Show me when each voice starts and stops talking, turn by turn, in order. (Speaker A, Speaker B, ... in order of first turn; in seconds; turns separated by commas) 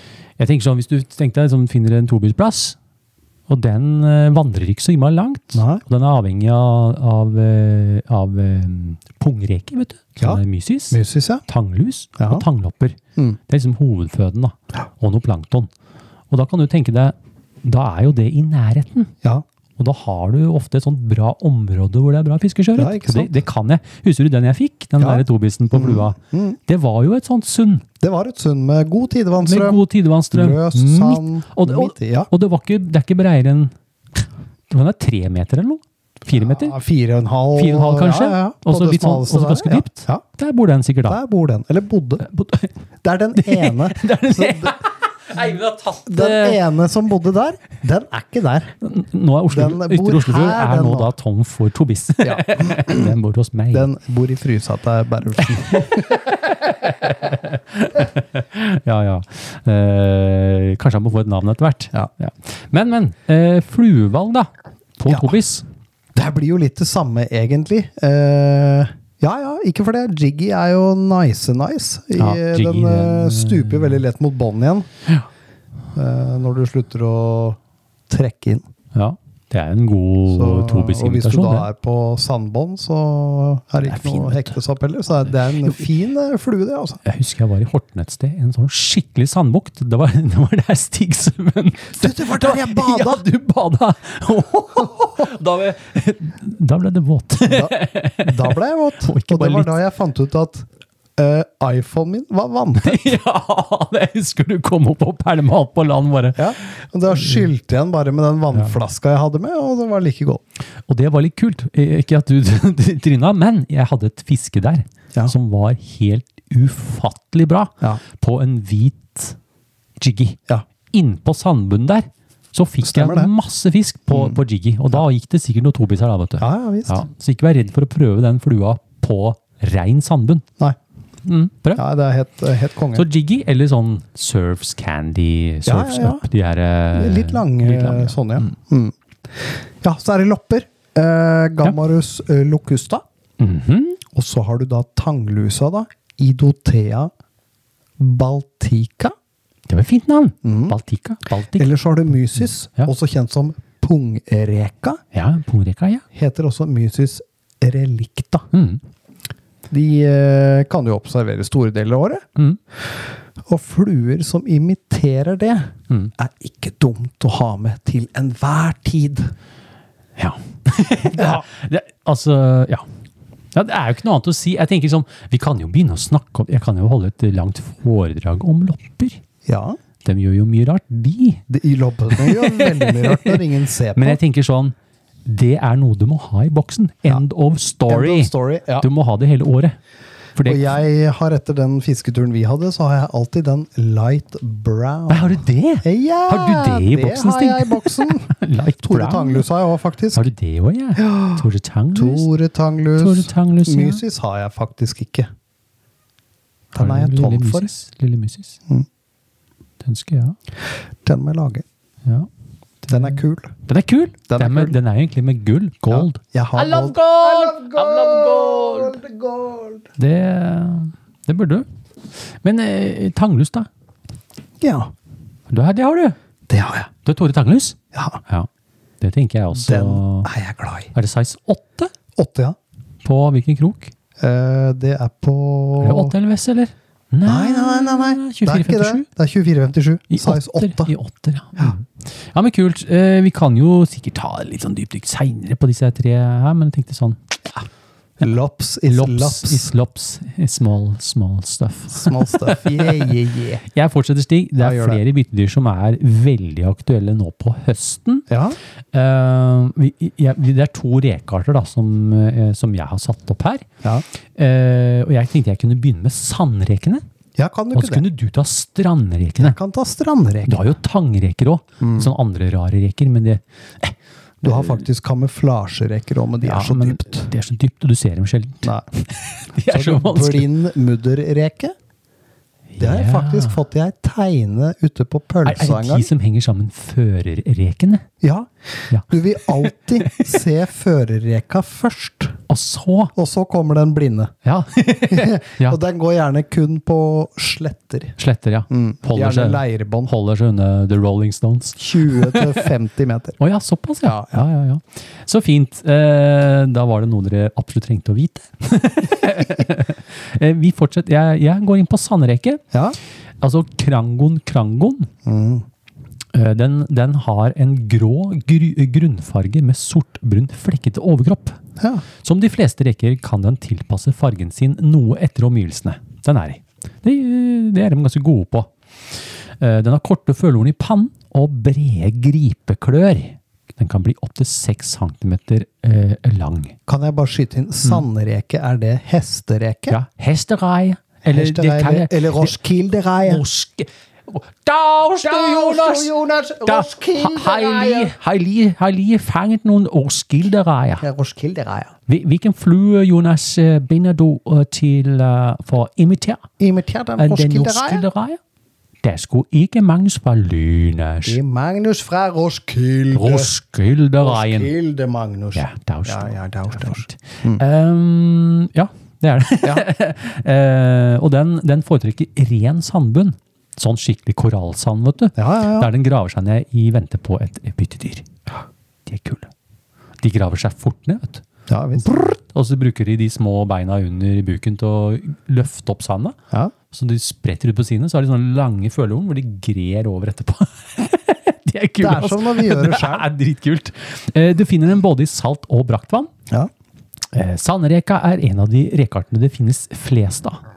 Speaker A: 0.4-2.8, Speaker A: 3.5-15.7, Speaker B: 5.5-5.8, Speaker B: 10.2-11.4, Speaker B: 12.2-12.4, Speaker A: 16.3-19.1, Speaker A: 19.8-27.8, Speaker B: 22.8-23.4, Speaker B: 25.0-26.6, Speaker B: 28.0-32.3, Speaker A: 29.4-36.8, Speaker B: 36.4-40.2, Speaker A: 37.6-41.2, Speaker B: 41.0-42.2, Speaker A: 42.2-42.7, Speaker B: 43.0-44.8, Speaker A: 43.4-46.6, Speaker B: 46.1-48.7, Speaker A: 48.8-53.9, Speaker B: 49.5-51.1, Speaker B: 52.2-53.1, Speaker B: 53.7-56.2, Speaker A: 55.4-65.7, Speaker B: 66.2-74.9, Speaker A: 72.2-74.0, Speaker B: 75.9-78.7, Speaker A: 78.9-81.7, Speaker B: 80.3-87.0, Speaker A: 83.8-84.6, Speaker A: 87.0-99.7, Speaker B: 92.0-93.2, Speaker B: 97.5-103.1, Speaker A: 102.8-107.4, Speaker B: 106.4-110.4, Speaker A: 110.9-119.4, Speaker A: 120.0-120.4, Speaker A: 120.9-130.5, Speaker B: 122.8-123.3, Speaker B: 124.1-124.4, Speaker B: 126.4-127.1, Speaker A: 131.2-131.8, Speaker B: 131.8-133.1, Speaker A: 132.9-138.6, Speaker B: 135.7-136.3, Speaker B: 136.9-143.0, Speaker A: 143.4-144.0, Speaker B: 144.1-147.1, Speaker B: 148.0-149.1, Speaker A: 149.7-151.7, Speaker B: 150.4-150.8, Speaker B: 151.6-155.0, Speaker A: 155.1-156.1, Speaker B: 156.1-158.4, Speaker A: 158.5-158.8, Speaker B: 159.7-169.3, Speaker A: 170.2-172.8, Speaker B: 171.1-171.4, Speaker A: 173.5-179.2, Speaker B: 179.5-179.8, Speaker A: 180.0-181.4, Speaker B: 181.5-184.2, Speaker A: 182.1-183.4, Speaker A: 183.9-189.8, Speaker B: 187.9-188.9, Speaker A: 190.4-190.7, Speaker B: 190.4-200.2, Speaker A: 195.1-199.5, Speaker A: 200.1-202.3, Speaker B: 201.0-205.3, Speaker A: 202.9-204.0, Speaker B: 206.7-207.7, Speaker A: 206.8-208.6, Speaker A: 209.8-210.4, Speaker B: 210.6-211.7, Speaker A: 212.8-219.0, Speaker B: 212.9-213.6, Speaker B: 214.3-214.8, Speaker B: 215.9-219.8, Speaker A: 220.0-221.7, Speaker A: 222.2-223.7, Speaker B: 224.6-224.9, Speaker A: 225.5-226.2, Speaker B: 226.5-226.9, Speaker A: 227.1-228.5, Speaker B: 227.9-228.2, Speaker A: 229.0-230.3, Speaker B: 229.6-230.9, Speaker A: 230.9-231.9, Speaker B: 232.2-232.6, Speaker A: 233.0-233.9, Speaker B: 234.2-236.1, Speaker A: 235.8-239.1, Speaker B: 237.2-240.9, Speaker A: 240.1-247.6, Speaker B: 248.2-249.7, Speaker A: 248.9-253.1, Speaker B: 251.9-253.6, Speaker A: 253.7-258.3, Speaker B: 254.6-255.0, Speaker B: 258.3-258.6, Speaker A: 258.9-263.7, Speaker A: 264.4-267.0, Speaker B: 267.4-268.1, Speaker A: 267.7-269.6, Speaker B: 269.4-270.7, Speaker A: 270.5-273.9, Speaker B: 271.8-272.1, Speaker B: 274.4-277.3, Speaker A: 276.4-280.5, Speaker B: 279.7-281.7, Speaker A: 282.7-283.6, Speaker B: 282.8-286.1, Speaker A: 285.4-288.1, Speaker B: 288.2-292.4, Speaker A: 288.9-289.7, Speaker A: 292.5-293.1, Speaker B: 293.1-294.3, Speaker A: 294.4-295.8, Speaker B: 295.1-298.2, Speaker A: 298.2-302.6, Speaker B: 298.7-300.1, Speaker B: 301.8-303.4, Speaker A: 303.4-312.6, Speaker B: 304.1-304.4, Speaker B: 312.7-313.0, Speaker A: 313.4-315.1, Speaker B: 315.2-315.6, Speaker A: 316.3-321.6, Speaker B: 321.8-322.0, Speaker A: 322.2-328.7, Speaker A: 329.6-336.8, Speaker B: 336.9-340.0, Speaker A: 339.9-342.6, Speaker B: 341.3-343.4, Speaker A: 343.2-351.1, Speaker B: 345.2-348.1, Speaker B: 351.0-351.9, Speaker A: 352.1-356.4, Speaker B: 356.6-358.1, Speaker A: 357.2-358.4, Speaker A: 359.0-361.4, Speaker B: 361.2-363.5, Speaker A: 363.1-364.7, Speaker B: 364.2-367.6, Speaker A: 365.5-378.3, Speaker B: 369.6-369.9, Speaker B: 375.4-375.9, Speaker A: 379.1-379.5, Speaker A: 380.2-381.4, Speaker B: 381.7-382.3, Speaker A: 381.9-386.4, Speaker A: 386.9-396.3, Speaker B: 392.0-393.3, Speaker A: 397.3-400.6